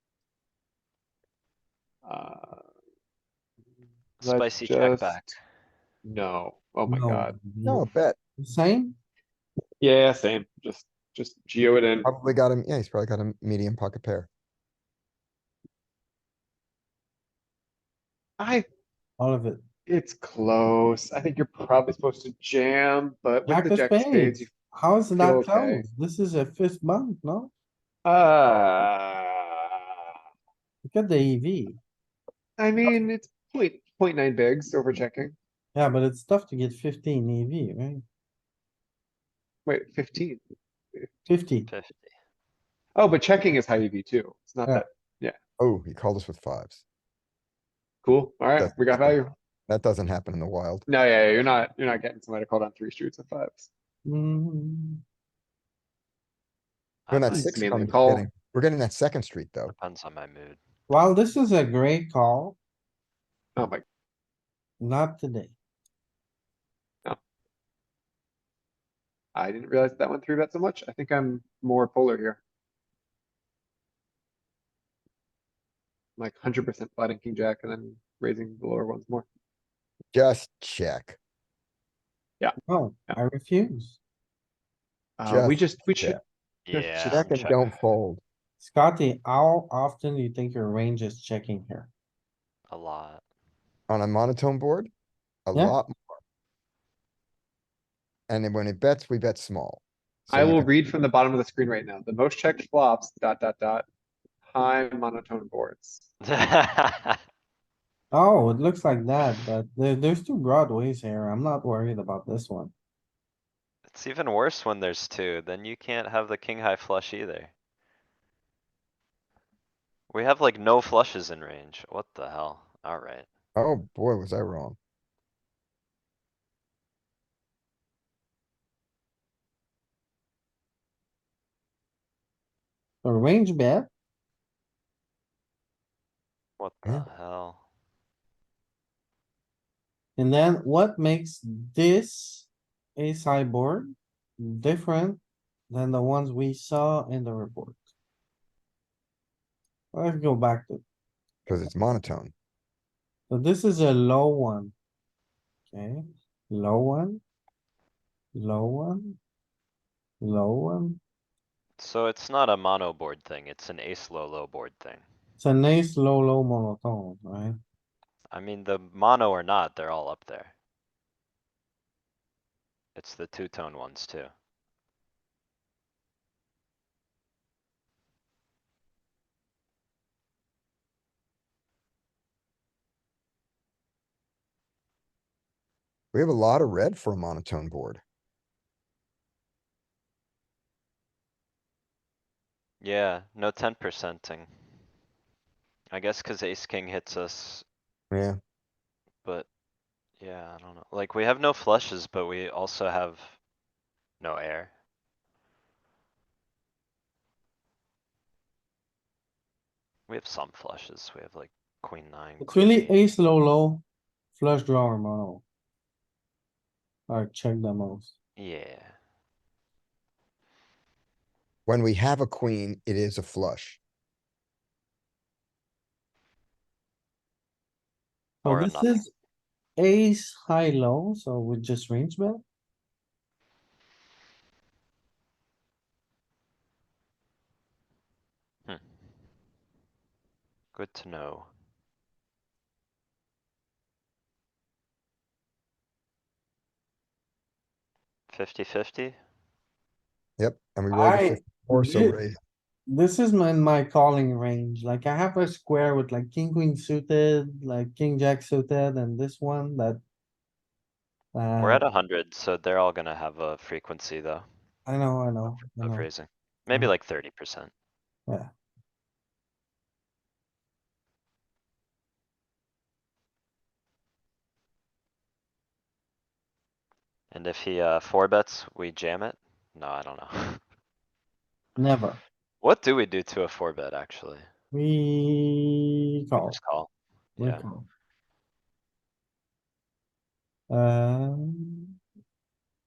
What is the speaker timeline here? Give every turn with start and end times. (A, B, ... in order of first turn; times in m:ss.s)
0:02.0-0:02.6 A
0:04.2-0:05.4 B
0:04.2-0:05.4 A
0:06.0-0:07.4 A
0:06.9-0:07.9 C
0:07.6-0:08.2 D
0:08.4-0:09.0 C
0:09.8-0:12.1 A
0:12.0-0:14.3 D
0:18.4-0:18.6 A
0:19.2-0:19.6 C
0:19.9-0:24.5 A
0:23.5-0:27.5 C
0:25.2-0:25.8 A
0:28.0-0:29.8 A
0:30.8-0:31.8 C
0:32.6-0:35.4 A
0:35.8-0:38.0 C
0:39.7-0:40.4 A
0:41.0-0:41.2 A
0:41.3-0:41.7 C
0:41.7-0:42.1 B
0:43.0-0:45.4 A
0:45.6-0:46.8 D
0:48.0-0:49.3 A
0:48.6-0:50.9 D
0:50.9-0:53.7 A
0:54.1-0:55.0 C
0:57.1-0:57.6 B
0:57.1-0:59.7 D
0:57.3-0:58.3 A
0:59.7-1:00.6 B
1:00.9-1:02.6 C
1:03.6-1:03.8 A
1:04.8-1:05.6 C
1:09.4-1:12.4 A
1:16.2-1:19.3 A
1:20.1-1:21.2 D
1:22.7-1:24.0 C
1:25.2-1:26.2 A
1:25.3-1:26.2 D
1:26.7-1:27.6 B
1:26.7-1:27.6 A
1:27.0-1:28.2 D
1:28.6-1:31.9 C
1:32.7-1:33.2 B
1:33.9-1:34.9 D
1:35.5-1:36.2 D
1:38.3-1:40.7 D
1:40.3-1:43.8 A
1:44.5-1:46.1 A
1:46.3-1:47.2 B
1:48.1-1:52.7 C
1:53.9-1:57.5 B
2:00.1-2:03.3 B
2:03.6-2:04.8 D
2:13.0-2:13.9 C
2:16.6-2:17.6 B
2:20.2-2:27.8 C
2:29.9-2:30.8 C
2:31.5-2:32.3 D
2:33.3-2:34.7 C
2:35.7-2:37.2 C
2:38.4-2:39.2 C
2:40.2-2:41.0 C
2:41.8-2:45.0 B
2:45.4-2:47.6 C
2:48.3-2:50.5 B
2:53.0-2:54.3 B
3:06.1-3:08.0 D
3:12.8-3:14.5 B
3:15.9-3:17.7 B
3:18.1-3:18.4 D
3:20.2-3:23.4 B
3:24.2-3:24.7 B
3:30.1-3:33.0 B
3:32.4-3:33.8 C
3:34.4-3:35.4 C
3:37.1-3:38.2 C
3:38.4-3:39.0 B
3:41.7-3:43.8 D
3:48.4-3:49.1 C
3:48.4-3:49.1 B
3:49.8-3:52.4 C
4:00.7-4:01.5 B
4:08.3-4:09.2 B
4:10.4-4:12.4 D
4:10.9-4:12.2 C
4:12.9-4:20.0 C
4:21.3-4:21.8 C
4:21.6-4:24.5 B
4:24.9-4:26.1 C
4:25.5-4:27.7 B
4:37.3-4:40.6 B
4:41.8-4:42.2 C
4:42.6-4:44.5 B
4:44.7-4:46.6 C
4:46.4-4:47.6 B
4:47.4-4:47.9 C
4:50.7-4:51.9 C